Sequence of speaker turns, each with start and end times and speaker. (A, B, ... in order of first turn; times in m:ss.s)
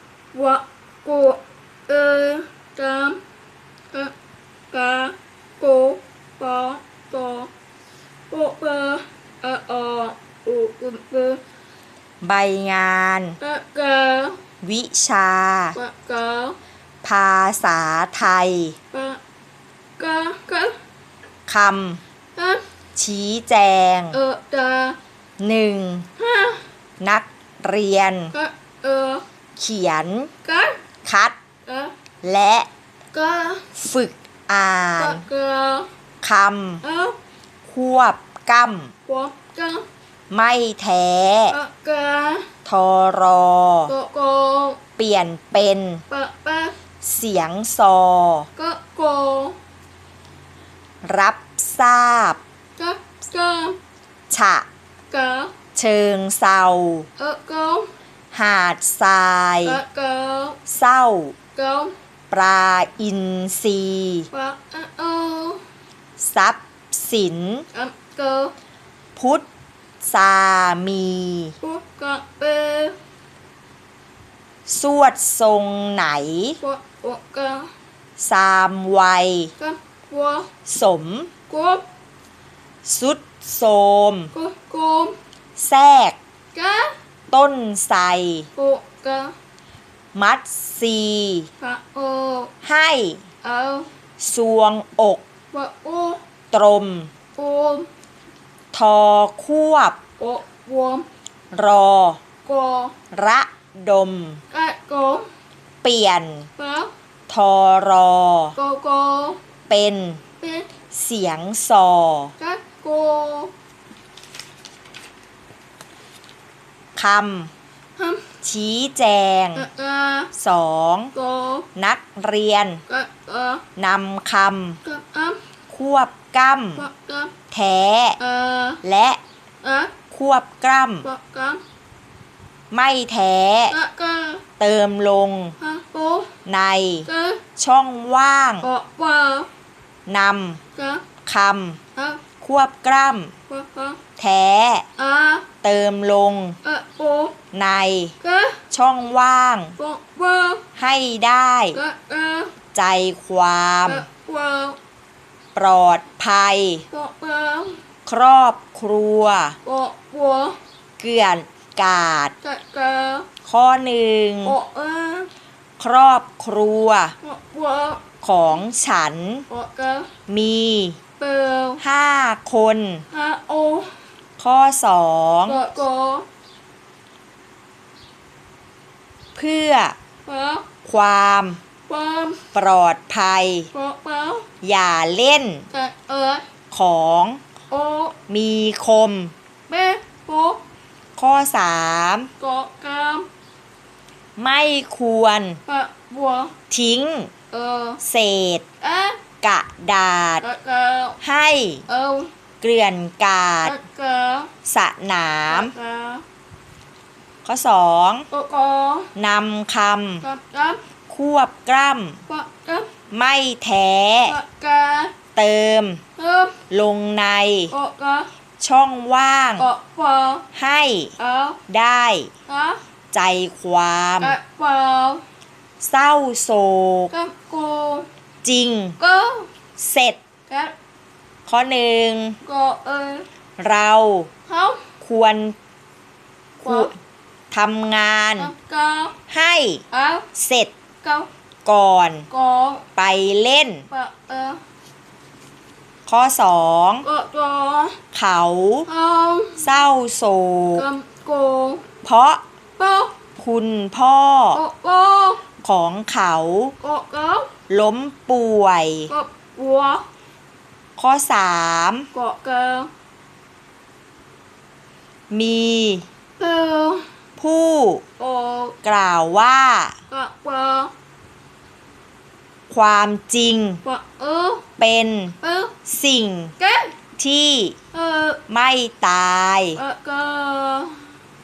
0:00.3-0:03.2 A
0:04.7-0:07.5 A
0:08.3-0:11.4 A
0:12.2-0:13.4 B
0:13.4-0:14.4 A
0:14.6-0:15.8 B
0:15.8-0:16.6 A
0:17.0-0:18.8 B
0:18.9-0:19.2 A
0:20.0-0:20.8 A
0:21.5-0:22.0 B
0:22.4-0:22.6 A
0:23.0-0:24.2 B
0:24.1-0:25.0 A
0:25.4-0:26.1 B
0:26.2-0:26.6 A
0:27.0-0:28.4 B
0:28.3-0:29.2 A
0:29.6-0:30.3 B
0:30.4-0:30.8 A
0:31.0-0:31.4 B
0:31.7-0:31.9 A
0:32.2-0:32.7 B
0:33.1-0:33.7 A
0:33.8-0:35.3 B
0:35.0-0:35.9 A
0:36.2-0:36.8 B
0:36.8-0:37.2 A
0:37.6-0:38.9 B
0:39.1-0:39.9 A
0:40.3-0:41.6 B
0:41.5-0:42.5 A
0:42.7-0:43.9 B
0:43.9-0:44.8 A
0:45.0-0:46.0 B
0:46.1-0:46.8 A
0:47.0-0:48.5 B
0:48.6-0:49.6 A
0:51.0-0:52.4 B
0:52.8-0:53.8 A
0:54.3-0:54.7 B
0:55.1-0:55.5 A
0:55.8-0:57.1 B
0:57.2-0:57.9 A
0:58.3-0:59.8 B
0:59.6-1:00.6 A
1:00.7-1:01.4 B
1:01.6-1:01.9 A
1:02.3-1:04.3 B
1:04.3-1:05.6 A
1:06.2-1:07.7 B
1:07.7-1:08.5 A
1:09.2-1:09.5 B
1:10.0-1:11.6 B
1:11.6-1:13.0 A
1:14.7-1:16.6 B
1:16.6-1:17.7 A
1:18.2-1:19.5 B
1:19.6-1:20.5 A
1:20.7-1:21.3 B
1:21.5-1:21.8 A
1:22.8-1:24.3 B
1:24.3-1:25.2 A
1:25.6-1:26.2 B
1:26.5-1:26.9 A
1:27.3-1:28.5 B
1:28.6-1:29.3 A
1:30.1-1:31.5 B
1:31.6-1:32.5 A
1:32.6-1:33.2 B
1:33.4-1:33.9 A
1:34.2-1:35.2 B
1:35.5-1:36.2 A
1:36.5-1:37.1 B
1:37.4-1:37.9 A
1:38.7-1:40.0 B
1:40.2-1:41.1 A
1:41.5-1:42.2 B
1:42.4-1:43.0 A
1:43.1-1:44.4 B
1:44.5-1:45.3 A
1:45.8-1:46.5 B
1:46.6-1:46.9 A
1:47.3-1:48.6 B
1:48.6-1:49.4 A
1:49.7-1:50.2 B
1:50.4-1:50.7 A
1:50.9-1:52.4 B
1:52.4-1:53.5 A
1:57.0-1:57.5 B
1:58.0-1:58.3 A
1:58.4-1:59.7 B
1:59.6-2:00.3 A
2:00.3-2:01.1 B
2:01.1-2:01.7 A
2:01.8-2:02.8 B
2:02.9-2:03.6 A
2:03.8-2:04.8 B
2:04.8-2:05.4 A
2:05.7-2:06.9 B
2:06.8-2:07.3 A
2:07.5-2:08.2 B
2:08.2-2:08.8 A
2:08.8-2:09.2 B
2:09.6-2:10.0 A
2:10.1-2:11.1 B
2:11.0-2:11.6 A
2:12.7-2:13.8 B
2:13.7-2:14.4 A
2:14.6-2:15.6 B
2:15.6-2:16.3 A
2:16.5-2:18.7 B
2:17.1-2:17.4 A
2:18.6-2:19.5 A
2:20.1-2:20.6 B
2:20.8-2:21.1 A
2:21.3-2:21.8 B
2:22.0-2:22.2 A
2:22.4-2:23.3 B
2:23.5-2:24.0 A
2:24.2-2:24.8 B
2:25.0-2:25.5 A
2:25.6-2:26.6 B
2:26.6-2:27.4 A
2:27.5-2:28.2 B
2:28.2-2:28.6 A
2:28.7-2:29.8 B
2:29.8-2:30.6 A
2:30.8-2:31.8 B
2:31.7-2:32.5 A
2:32.8-2:34.1 B
2:33.9-2:34.8 A
2:35.6-2:36.8 B
2:36.9-2:37.8 A
2:38.1-2:39.6 B
2:39.6-2:40.6 A
2:41.0-2:42.3 B
2:42.4-2:43.3 A
2:43.5-2:44.6 B
2:44.4-2:45.3 A
2:45.8-2:47.2 B
2:47.2-2:48.0 A
2:48.2-2:49.5 B
2:49.5-2:50.1 A
2:50.3-2:51.0 B
2:51.2-2:51.8 A
2:51.8-2:53.1 B
2:53.1-2:54.0 A
2:54.4-2:55.6 B
2:55.5-2:56.3 A
2:59.4-3:00.0 B
3:00.3-3:00.7 A
3:00.8-3:01.6 B
3:01.9-3:02.4 A
3:02.5-3:03.7 B
3:03.7-3:04.5 A
3:04.6-3:05.7 B
3:05.7-3:06.4 A
3:06.7-3:07.4 B
3:07.7-3:08.2 A
3:08.3-3:09.3 B
3:09.7-3:10.6 A
3:11.2-3:12.3 B
3:12.4-3:13.3 A
3:14.4-3:15.6 B
3:15.7-3:16.5 A
3:16.7-3:17.3 B
3:17.5-3:18.0 A
3:18.0-3:18.6 B
3:18.8-3:19.2 A
3:19.4-3:20.5 B
3:20.4-3:21.2 A
3:21.2-3:21.8 B
3:21.9-3:22.3 A
3:22.6-3:23.8 B
3:23.6-3:24.5 A
3:24.7-3:25.7 B
3:25.5-3:26.2 A
3:27.4-3:28.3 B
3:28.3-3:29.1 A
3:29.2-3:30.3 B
3:30.2-3:30.8 A
3:31.1-3:32.2 B
3:32.3-3:32.9 A
3:33.1-3:34.4 B
3:34.3-3:35.2 A
3:35.4-3:36.0 B
3:36.2-3:36.6 A
3:36.7-3:37.7 B
3:37.7-3:38.3 A
3:38.6-3:39.7 B
3:39.6-3:40.5 A
3:40.5-3:41.1 B
3:41.2-3:41.6 A
3:41.7-3:42.3 B
3:42.5-3:42.8 A
3:43.1-3:44.4 B
3:44.2-3:45.2 A
3:45.8-3:47.1 B
3:47.1-3:48.1 A
3:48.4-3:49.0 B
3:49.0-3:49.5 A
3:49.8-3:50.2 B
3:50.5-3:50.8 A
3:51.5-3:52.4 B
3:52.4-3:53.3 A
3:53.6-3:54.3 B
3:54.5-3:54.8 A
3:55.0-3:55.6 B
3:56.6-3:56.9 B
3:56.6-3:56.9 A
3:57.5-3:58.5 B
3:58.4-3:59.2 A
3:59.3-4:00.7 B
3:59.9-4:00.3 A
4:01.0-4:01.3 A
4:01.6-4:02.3 B
4:02.3-4:02.9 A
4:03.0-4:03.9 B
4:03.9-4:04.6 A
4:06.1-4:07.1 B
4:07.0-4:08.0 A
4:08.1-4:08.9 B
4:08.9-4:09.7 A
4:09.6-4:10.9 B
4:10.8-4:11.9 A
4:12.0-4:12.4 B
4:12.8-4:13.2 A
4:13.4-4:14.6 B
4:14.5-4:15.4 A
4:15.6-4:16.8 B
4:16.8-4:17.5 A
4:17.7-4:19.1 B
4:19.1-4:20.0 A
4:21.0-4:22.1 B
4:22.1-4:22.9 A
4:25.3-4:26.1 B
4:26.4-4:27.1 A
4:27.4-4:28.0 B
4:28.2-4:28.8 A
4:28.8-4:30.0 B
4:30.1-4:30.9 A
4:32.7-4:33.8 B
4:33.8-4:34.6 A
4:34.8-4:36.5 B
4:35.4-4:35.8 A
4:36.6-4:36.9 A
4:37.2-4:37.8 B
4:37.9-4:38.4 A
4:38.5-4:39.8 B
4:39.8-4:41.1 A